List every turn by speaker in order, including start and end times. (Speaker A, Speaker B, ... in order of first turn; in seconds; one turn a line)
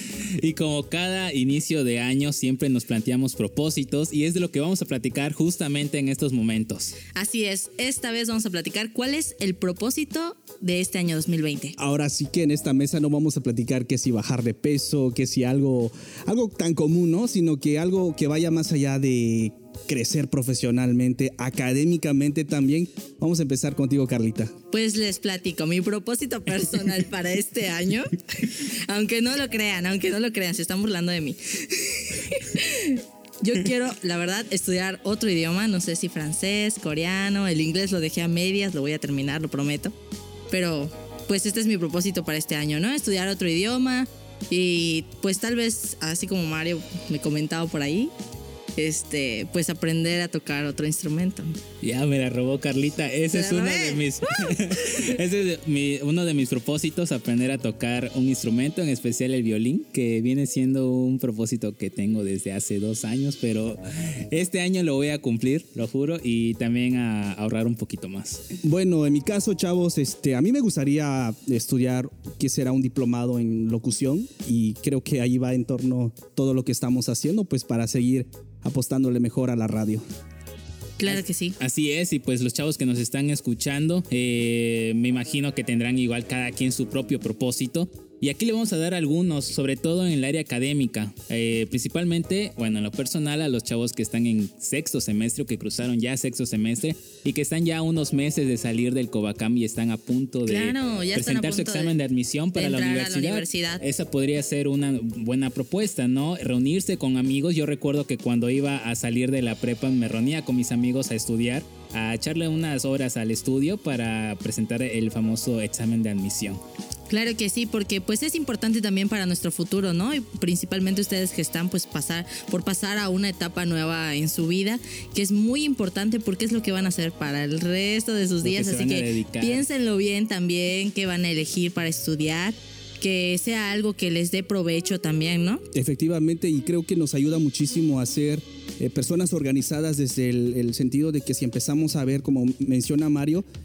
Speaker A: 0.4-7.0
Speaker B: 7.0-11.7
Speaker C: 11.8-24.5
Speaker B: 24.7-39.9
Speaker B: 40.5-48.1
Speaker B: 48.8-51.5
Speaker A: 51.8-68.4
Speaker B: 53.3-55.0
Speaker C: 68.6-80.0
Speaker B: 81.0-81.6
Speaker A: 81.0-116.6
Speaker B: 100.5-101.9
Speaker B: 102.5-103.8
Speaker B: 117.1-135.6
Speaker A: 128.4-129.7
Speaker C: 135.7-143.4